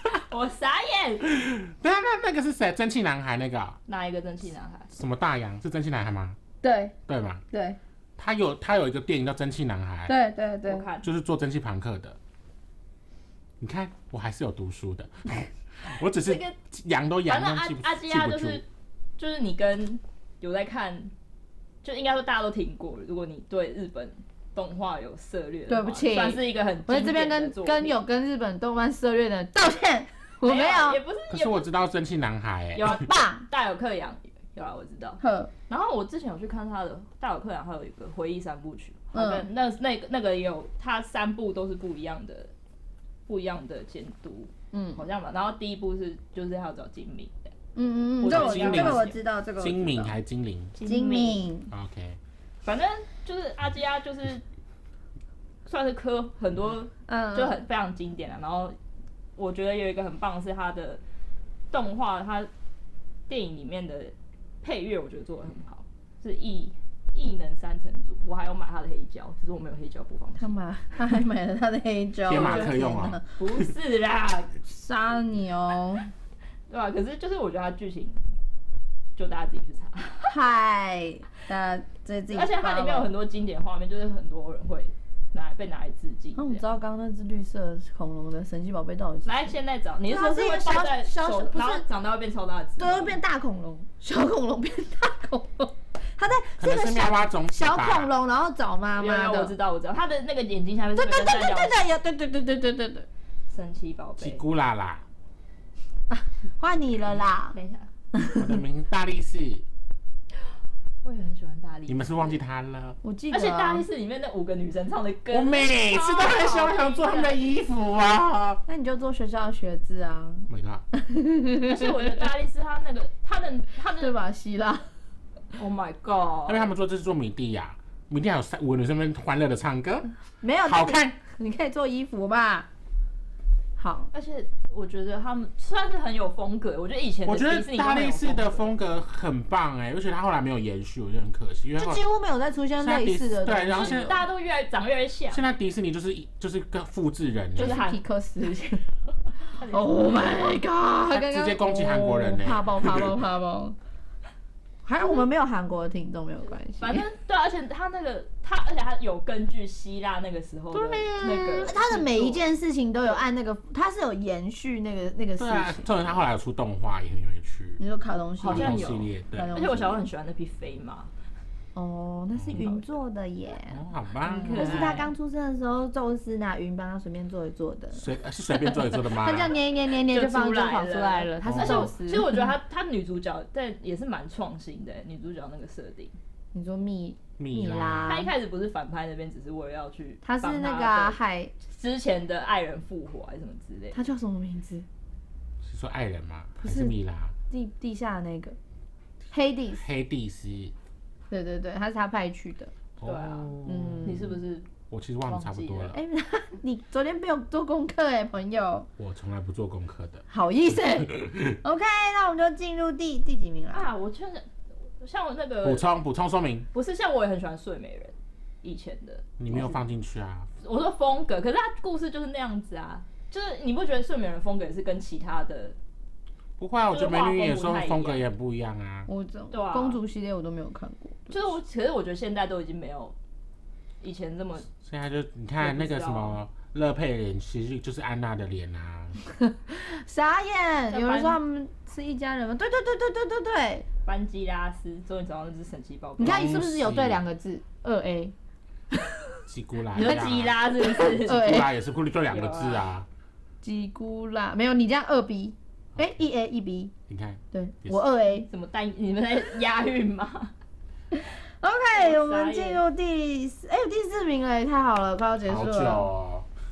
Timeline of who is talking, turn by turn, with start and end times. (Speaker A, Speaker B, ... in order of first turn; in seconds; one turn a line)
Speaker A: 0.3-1.3
Speaker B: 1.3-3.8
Speaker A: 3.9-4.9
Speaker B: 4.9-6.4
Speaker C: 6.6-7.0
Speaker B: 7.1-7.4
Speaker C: 7.5-7.8
Speaker B: 8.2-10.2
Speaker C: 10.1-10.8
Speaker A: 10.7-11.1
Speaker B: 11.0-12.2
Speaker B: 13.6-18.6
Speaker A: 16.2-16.6
Speaker A: 17.3-18.7
Speaker A: 19.2-21.1
Speaker A: 21.8-28.0
Speaker C: 25.7-31.0
Speaker A: 30.4-31.7
Speaker B: 31.3-33.0
Speaker A: 32.8-42.5
Speaker C: 32.8-33.5
Speaker C: 35.2-35.5
Speaker C: 39.1-39.5
Speaker A: 43.3-47.5
Speaker C: 44.7-45.0
Speaker C: 47.8-50.1
Speaker A: 48.2-49.2
Speaker B: 48.3-50.7
Speaker A: 50.8-51.5
Speaker C: 50.8-51.7
Speaker B: 51.7-52.2
Speaker A: 52.6-54.4
Speaker A: 55.7-58.8
Speaker C: 57.1-57.6
Speaker A: 59.4-61.0
Speaker A: 61.7-62.5
Speaker A: 63.3-70.6
Speaker C: 70.4-73.2
Speaker B: 72.3-73.2
Speaker A: 72.3-72.8
Speaker A: 73.4-74.6
Speaker C: 74.7-76.0
Speaker A: 76.7-78.2
Speaker A: 79.2-80.4
Speaker C: 80.3-83.1
Speaker A: 82.3-86.7
Speaker C: 86.4-89.5
Speaker A: 89.3-93.2
Speaker C: 90.1-91.8
Speaker C: 92.8-99.5
Speaker B: 96.6-98.1
Speaker A: 99.0-101.8
Speaker C: 101.0-103.1
Speaker A: 103.5-104.4
Speaker B: 104.2-105.0
Speaker C: 106.1-107.6
Speaker A: 107.5-107.9
Speaker C: 108.1-108.6
Speaker B: 108.3-109.6
Speaker A: 111.0-112.4
Speaker B: 111.9-113.0
Speaker C: 113.0-113.8
Speaker A: 113.3-117.4
Speaker B: 115.3-118.6
Speaker C: 118.7-122.3
Speaker B: 120.5-120.8
Speaker A: 121.7-124.2
Speaker C: 124.0-124.9
Speaker A: 125.6-126.7
Speaker B: 126.5-130.1
Speaker C: 130.4-132.7
Speaker B: 130.7-131.1
Speaker C: 133.8-134.1
Speaker A: 134.1-138.8
Speaker B: 137.3-142.0
Speaker C: 141.8-144.2
Speaker B: 142.8-144.2
Speaker A: 143.7-145.4
Speaker B: 145.3-147.8
Speaker A: 147.6-148.0
Speaker C: 147.6-148.8
Speaker A: 149.5-150.5
Speaker C: 149.6-153.8
Speaker B: 151.1-153.2
Speaker C: 154.8-157.1
Speaker A: 156.8-162.4
Speaker B: 160.7-161.7
Speaker C: 161.5-166.2
Speaker B: 165.4-167.8
Speaker C: 167.8-170.1
Speaker A: 168.4-171.1
Speaker B: 168.5-169.5
Speaker C: 171.8-173.8
Speaker B: 172.4-172.6
Speaker A: 172.5-173.0
Speaker B: 173.7-174.9
Speaker A: 174.2-175.1
Speaker C: 174.4-182.3
Speaker B: 177.9-179.5
Speaker A: 180.1-186.2
Speaker B: 181.4-181.9
Speaker C: 186.5-188.3
Speaker B: 187.4-188.2
Speaker A: 188.1-194.0
Speaker C: 190.2-191.5
Speaker C: 193.9-194.9
Speaker B: 195.6-197.3
Speaker C: 196.6-196.9
Speaker C: 197.5-198.6
Speaker C: 199.3-199.8
Speaker B: 199.8-200.7
Speaker C: 201.3-202.7
Speaker B: 203.0-204.3
Speaker A: 203.0-204.7
Speaker C: 203.7-204.4
Speaker B: 204.9-206.0
Speaker A: 205.3-206.0
Speaker C: 205.9-208.9
Speaker B: 209.0-210.2
Speaker C: 210.3-213.9
Speaker B: 210.9-211.6
Speaker A: 213.7-214.5
Speaker A: 215.0-215.8
Speaker B: 215.6-216.7
Speaker A: 216.7-219.2
Speaker B: 219.4-220.5
Speaker C: 219.5-219.8
Speaker A: 220.6-225.8
Speaker B: 226.6-229.1
Speaker A: 226.9-228.2
Speaker C: 229.1-231.5
Speaker A: 229.5-230.0
Speaker A: 231.3-233.2
Speaker A: 234.0-234.7
Speaker B: 234.7-239.2
Speaker A: 235.6-236.4
Speaker C: 239.3-243.9
Speaker A: 240.9-241.4
Speaker A: 244.1-246.6
Speaker C: 246.2-248.3
Speaker B: 246.2-247.2
Speaker C: 248.9-249.4
Speaker B: 249.5-253.1
Speaker A: 249.9-251.6
Speaker C: 250.0-250.3
Speaker C: 250.9-251.7
Speaker A: 252.3-252.9
Speaker C: 253.6-256.9
Speaker B: 257.1-258.1
Speaker C: 257.5-258.5
Speaker A: 258.3-260.5
Speaker C: 261.1-266.1
Speaker A: 261.9-262.8
Speaker B: 265.4-266.5